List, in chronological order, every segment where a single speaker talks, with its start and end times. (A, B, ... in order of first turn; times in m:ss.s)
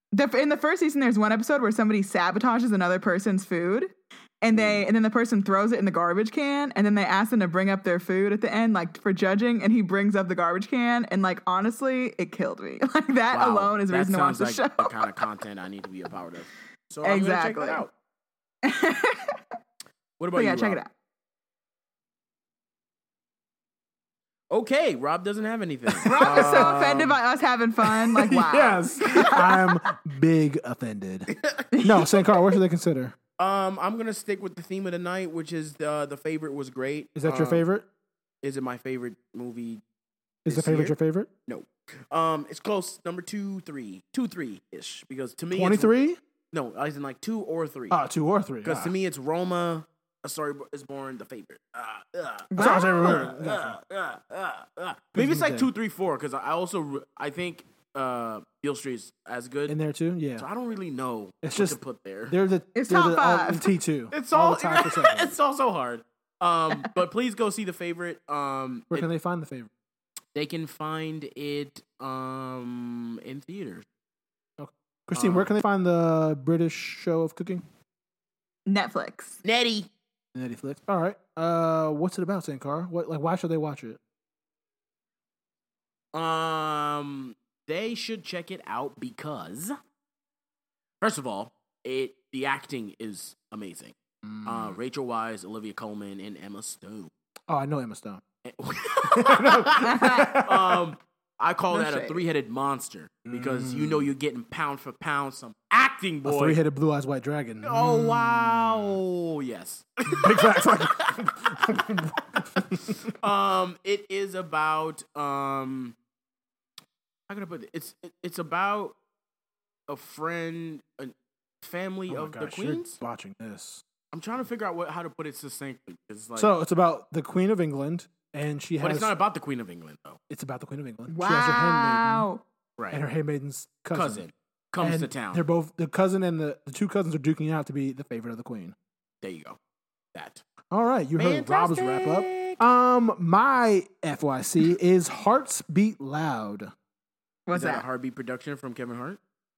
0:00.1-0:15.2 A
0:04.5-0:04.8 B
0:13.3-0:17.9 B
0:17.0-0:17.8 A
0:18.6-0:19.3 A
0:20.2-0:20.8 B
0:20.3-0:20.9 A
0:24.5-0:27.1 B
0:25.9-0:27.1 C
0:26.0-0:29.6 A
0:27.9-0:31.3 C
0:31.3-0:31.7 B
0:31.7-0:32.3 A
0:31.8-0:33.2 C
0:33.4-0:37.6 B
0:37.1-0:37.8 C
0:38.4-0:39.8 B
0:40.4-0:41.3 C
0:40.5-0:40.9 B
0:41.5-0:45.9 B
0:45.5-0:46.2 C
0:46.5-0:48.0 B
0:47.9-0:48.9 C
0:48.6-0:59.8 B
0:52.5-0:53.2 A
0:52.6-0:53.8 C
0:55.1-0:55.7 C
0:59.7-1:00.5 C
1:00.4-1:02.3 B
1:01.4-1:05.3 C
1:02.7-1:03.7 A
1:04.1-1:09.1 B
1:08.9-1:09.7 C
1:10.3-1:13.8 B
1:14.6-1:17.6 C
1:15.1-1:15.5 B
1:18.7-1:19.4 A
1:19.4-1:19.9 B
1:20.3-1:24.0 C
1:26.1-1:29.7 B
1:31.0-1:37.1 B
1:34.2-1:34.8 C
1:37.5-1:38.2 C
1:38.4-1:39.9 B
1:39.0-1:40.8 C
1:39.8-1:40.4 A
1:40.4-1:46.6 B
1:41.7-1:42.2 A
1:43.3-1:44.1 C
1:46.2-1:49.0 C
1:47.6-1:51.8 B
1:50.1-1:53.1 C
1:53.1-1:56.0 B
1:57.3-1:58.9 B
1:59.9-2:03.0 B
2:02.1-2:03.8 C
2:04.1-2:06.5 B
2:06.4-2:09.1 C
2:08.8-2:10.2 B
2:10.3-2:12.3 C
2:11.1-2:12.4 A
2:12.9-2:14.2 C
2:13.9-2:15.4 B
2:14.8-2:18.7 C
2:19.2-2:19.6 B
2:20.1-2:20.4 B
2:20.7-2:26.7 C
2:21.2-2:22.6 B
2:27.5-2:27.8 A
2:27.5-2:29.2 B